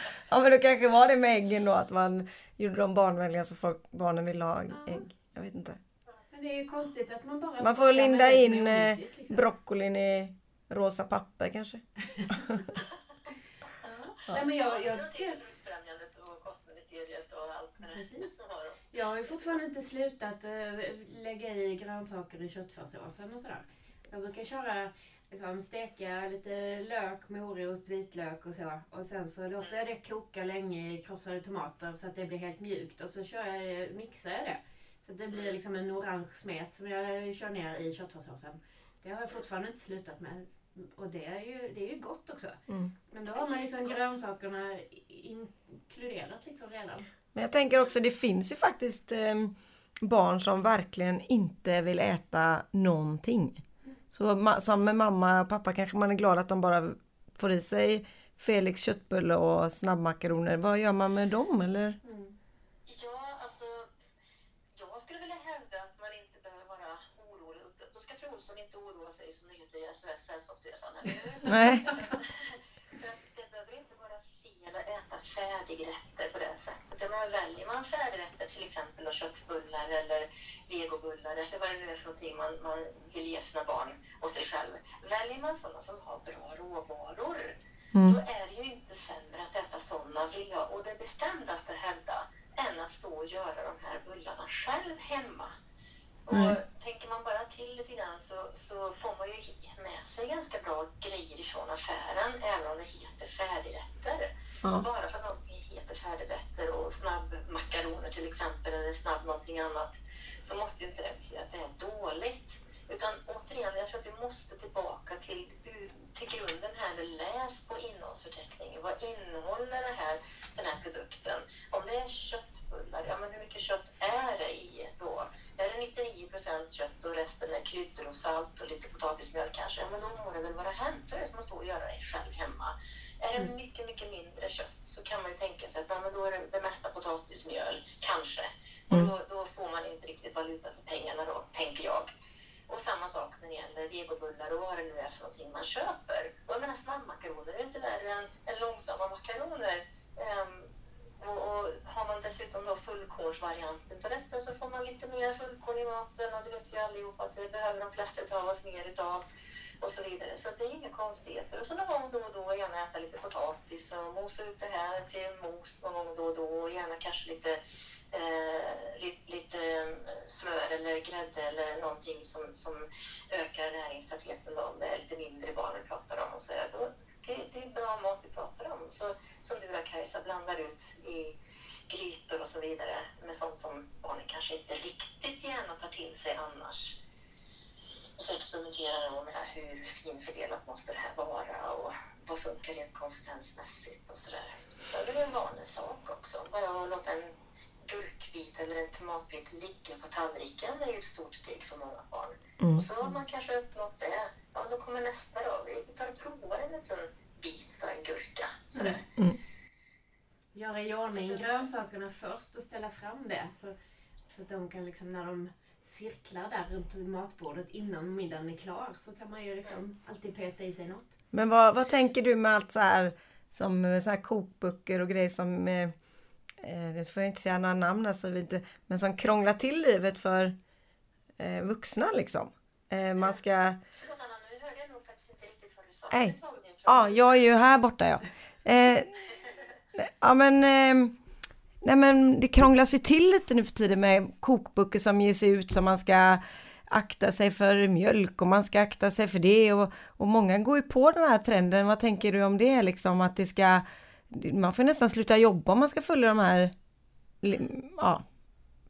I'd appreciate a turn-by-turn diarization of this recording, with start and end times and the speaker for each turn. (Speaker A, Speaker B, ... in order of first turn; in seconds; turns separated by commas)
Speaker A: 0.3-5.8, Speaker B: 4.7-5.0, Speaker B: 6.3-9.4, Speaker A: 7.6-12.7, Speaker B: 13.8-15.4, Speaker C: 14.4-19.6, Speaker B: 17.8-18.3, Speaker B: 18.9-42.6, Speaker A: 42.7-42.9, Speaker B: 43.1-47.1, Speaker C: 43.3-44.0, Speaker A: 47.4-62.0, Speaker B: 62.0-62.3, Speaker C: 62.9-63.9, Speaker C: 64.8-95.6, Speaker A: 71.5-71.9, Speaker C: 96.3-142.1, Speaker C: 142.7-159.2, Speaker C: 159.8-167.6, Speaker C: 168.1-181.4, Speaker C: 181.9-187.0, Speaker C: 188.2-197.3, Speaker C: 197.9-209.0, Speaker A: 202.6-202.8, Speaker B: 210.6-213.8, Speaker C: 211.0-211.7, Speaker B: 214.3-221.1, Speaker A: 221.3-225.9, Speaker A: 226.6-230.6, Speaker A: 231.4-233.8, Speaker C: 233.9-237.5, Speaker A: 236.1-239.2, Speaker A: 239.9-241.1, Speaker A: 241.8-256.7, Speaker A: 257.4-258.2